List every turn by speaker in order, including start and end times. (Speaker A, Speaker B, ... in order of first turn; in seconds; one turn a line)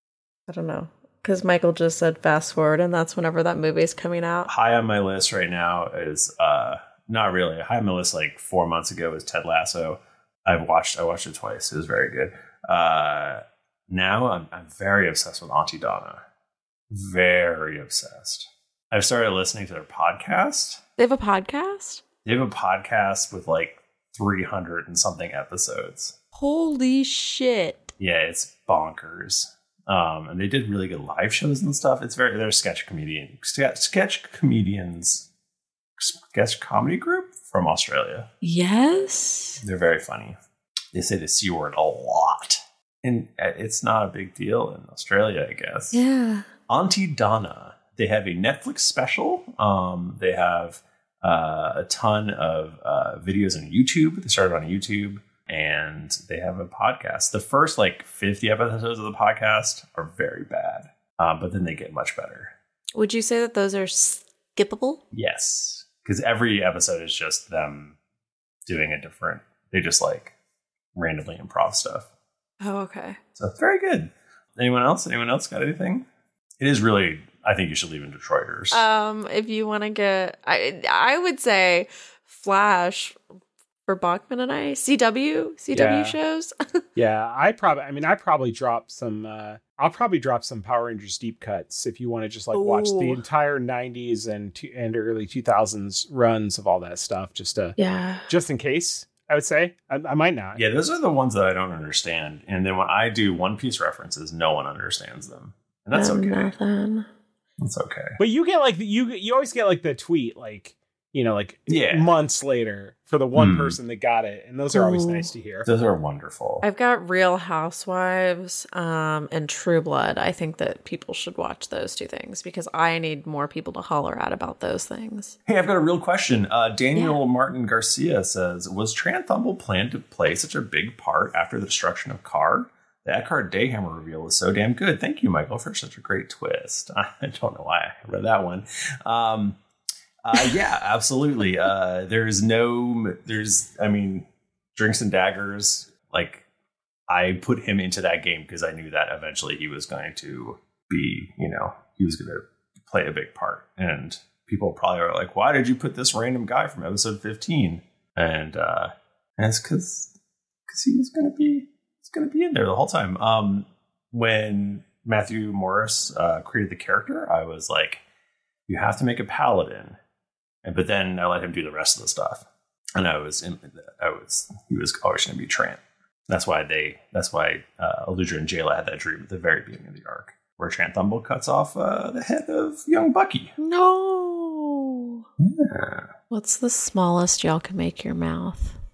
Speaker A: 0.5-4.5
Speaker B: 4.5-16.2
Speaker B: 16.9-20.8
Speaker A: 21.0-22.0
Speaker B: 22.2-26.1
Speaker A: 26.3-27.9
Speaker B: 28.0-35.3
Speaker B: 36.0-38.3
Speaker A: 38.4-39.6
Speaker B: 39.6-40.4
Speaker B: 40.9-46.0
Speaker A: 45.9-46.5
Speaker B: 46.7-62.5
Speaker A: 62.9-65.0
Speaker B: 65.1-68.0
Speaker B: 68.7-70.3
Speaker B: 70.9-72.1
Speaker A: 72.6-73.2
Speaker B: 73.4-76.0
Speaker B: 76.6-78.8
Speaker A: 78.7-83.2
Speaker A: 83.9-86.5
Speaker C: 85.7-86.2
Speaker C: 87.0-97.7
Speaker A: 92.5-93.2
Speaker A: 97.8-98.3
Speaker C: 98.3-100.6
Speaker B: 100.5-106.5
Speaker A: 105.9-107.0
Speaker B: 107.6-108.2
Speaker C: 108.2-115.7
Speaker B: 111.7-112.1
Speaker B: 113.3-113.8
Speaker A: 114.7-115.3
Speaker B: 115.7-116.6
Speaker A: 116.6-125.3
Speaker B: 125.5-139.6
Speaker B: 140.2-146.4
Speaker B: 147.1-160.1
Speaker B: 160.7-168.0
Speaker B: 168.7-170.0
Speaker B: 170.6-172.4
Speaker B: 172.9-183.5
Speaker A: 183.6-185.2
Speaker B: 185.4-186.1
Speaker A: 186.3-188.8